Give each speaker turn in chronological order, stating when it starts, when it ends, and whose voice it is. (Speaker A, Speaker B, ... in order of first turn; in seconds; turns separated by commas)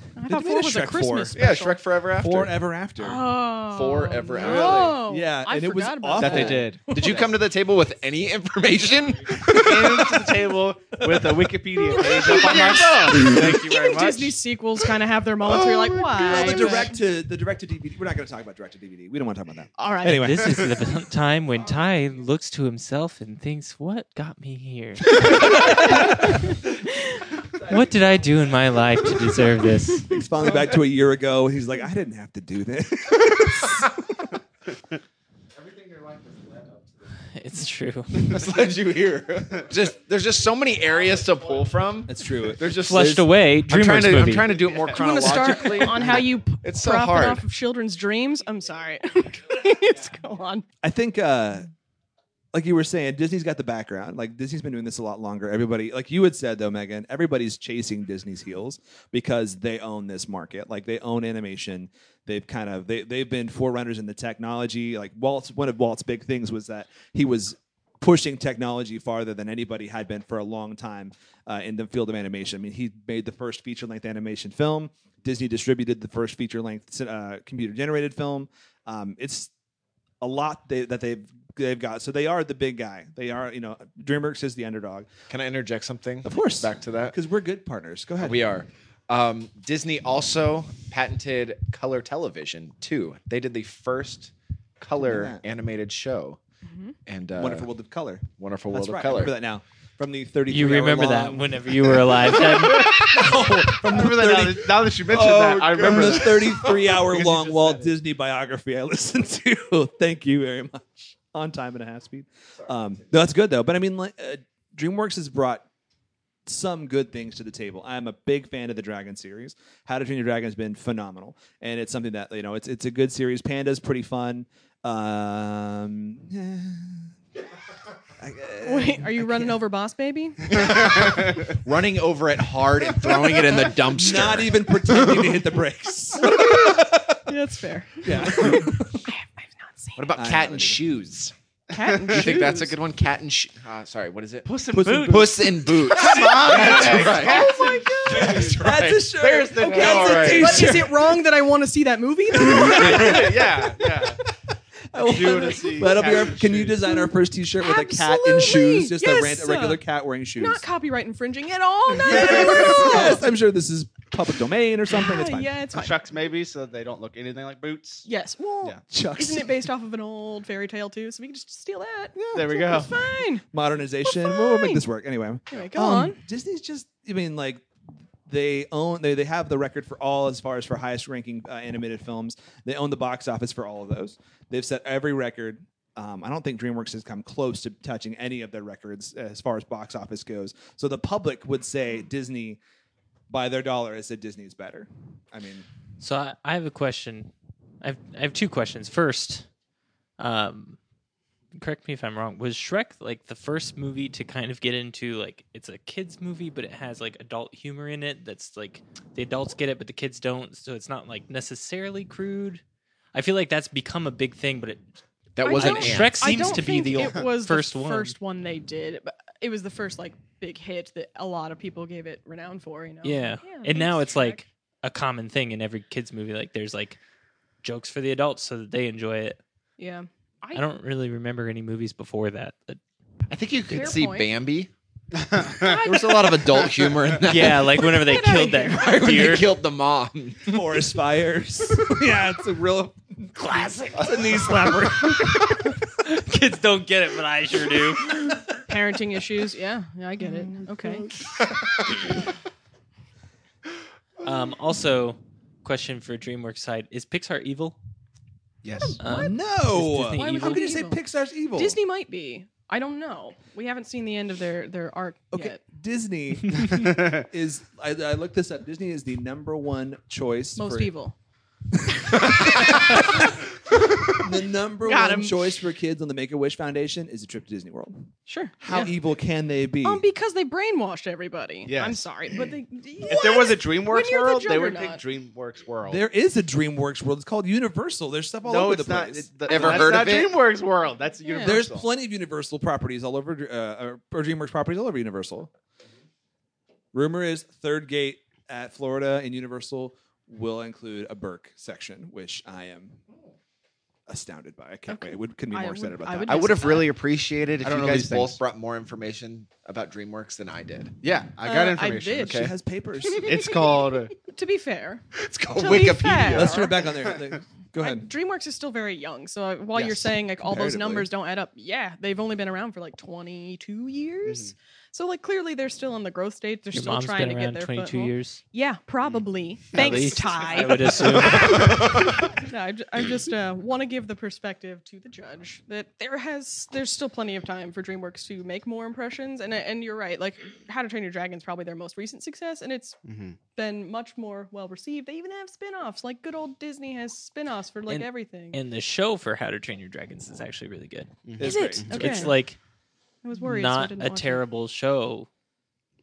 Speaker A: 0.2-1.8, Speaker B: 0.3-1.4, Speaker C: 1.4-2.6, Speaker B: 2.2-3.3, Speaker A: 3.0-6.7, Speaker C: 3.7-5.0, Speaker D: 4.5-4.7, Speaker B: 4.7-7.3, Speaker D: 6.2-7.3, Speaker C: 6.2-10.4, Speaker D: 9.4-14.3, Speaker B: 11.0-11.5, Speaker A: 11.8-16.9, Speaker C: 12.3-12.8, Speaker B: 15.5-20.9, Speaker A: 19.8-20.3, Speaker E: 20.1-26.9, Speaker B: 25.5-26.0, Speaker A: 27.0-27.2, Speaker E: 27.6-30.2, Speaker B: 30.1-34.3, Speaker E: 37.3-38.4, Speaker C: 38.1-47.4, Speaker B: 42.1-42.6, Speaker E: 42.9-44.6, Speaker A: 44.9-50.6, Speaker B: 50.8-51.7, Speaker B: 52.5-79.5, Speaker B: 80.2-85.1, Speaker C: 85.3-87.2, Speaker B: 86.2-88.5, Speaker C: 88.2-96.4, Speaker B: 95.0-95.4, Speaker A: 96.7-97.0, Speaker C: 97.1-97.7, Speaker B: 97.4-115.7, Speaker C: 98.4-99.3, Speaker E: 100.5-103.2, Speaker D: 102.9-107.9, Speaker B: 116.5-127.1, Speaker B: 128.2-129.6, Speaker A: 128.6-131.0, Speaker C: 130.6-135.2, Speaker B: 133.6-137.2, Speaker A: 136.1-140.1, Speaker B: 138.0-139.0, Speaker C: 140.0-141.3, Speaker B: 140.1-140.8, Speaker A: 141.7-142.7, Speaker D: 142.1-142.4, Speaker C: 142.1-144.5, Speaker D: 144.4-150.6, Speaker B: 144.7-151.2, Speaker C: 145.0-150.7, Speaker A: 147.3-148.3, Speaker A: 149.8-153.4, Speaker B: 152.3-154.3, Speaker D: 152.6-154.2, Speaker B: 154.9-160.6, Speaker D: 155.0-156.9, Speaker A: 156.8-159.8, Speaker A: 160.4-163.3, Speaker B: 162.0-165.6, Speaker A: 164.9-166.0, Speaker D: 165.7-168.1, Speaker A: 168.1-173.4, Speaker B: 168.9-169.7, Speaker B: 172.2-172.9, Speaker D: 172.3-172.9, Speaker B: 173.5-177.7, Speaker A: 174.0-174.8, Speaker A: 175.5-176.2, Speaker B: 178.3-192.6, Speaker B: 193.3-195.7, Speaker E: 196.0-197.3, Speaker E: 197.8-199.5, Speaker E: 200.2-200.8, Speaker E: 201.5-212.6, Speaker E: 213.1-214.9, Speaker C: 215.4-216.5, Speaker A: 215.4-224.4, Speaker E: 215.4-218.2, Speaker E: 223.0-227.0, Speaker E: 227.6-229.4, Speaker A: 229.8-230.7, Speaker E: 230.5-232.8, Speaker C: 233.3-234.7, Speaker A: 233.7-234.3, Speaker D: 235.3-235.7, Speaker C: 235.6-240.7, Speaker A: 235.6-236.2, Speaker E: 237.2-239.5, Speaker A: 238.1-238.9, Speaker B: 240.5-245.7, Speaker E: 243.4-244.5, Speaker E: 246.0-248.5, Speaker A: 248.7-251.1, Speaker B: 250.4-251.2, Speaker E: 254.2-257.8, Speaker D: 258.6-259.0, Speaker A: 258.9-259.3, Speaker E: 259.0-260.7, Speaker B: 259.1-261.8, Speaker A: 260.1-261.0, Speaker A: 261.5-265.6, Speaker B: 265.3-270.9, Speaker D: 266.9-267.2, Speaker A: 270.6-271.1, Speaker B: 272.2-273.3, Speaker B: 274.1-280.0, Speaker A: 274.9-275.3, Speaker A: 278.3-278.9, Speaker A: 279.8-285.0, Speaker D: 281.7-282.0, Speaker D: 283.1-286.0, Speaker B: 285.9-289.7, Speaker D: 288.4-291.9, Speaker C: 289.5-290.4, Speaker A: 289.5-289.9, Speaker A: 291.2-291.6, Speaker B: 291.4-295.5, Speaker B: 296.9-303.0, Speaker B: 304.1-306.8, Speaker A: 304.9-306.9, Speaker C: 306.3-310.9, Speaker D: 307.6-308.4, Speaker D: 311.0-312.3, Speaker A: 311.4-312.4, Speaker C: 312.2-312.5, Speaker B: 312.3-313.5, Speaker A: 313.1-316.9, Speaker D: 313.2-314.1, Speaker C: 315.1-316.6, Speaker B: 316.3-318.1, Speaker A: 317.8-343.0, Speaker B: 319.8-321.1, Speaker D: 324.3-324.5, Speaker E: 326.7-328.4, Speaker E: 329.7-331.8, Speaker C: 331.0-332.1, Speaker D: 343.1-343.4, Speaker A: 343.6-348.6, Speaker E: 347.9-351.1, Speaker D: 351.3-352.2, Speaker B: 351.4-352.3, Speaker A: 351.4-352.4, Speaker E: 351.9-352.6, Speaker A: 353.2-354.4, Speaker E: 353.4-355.3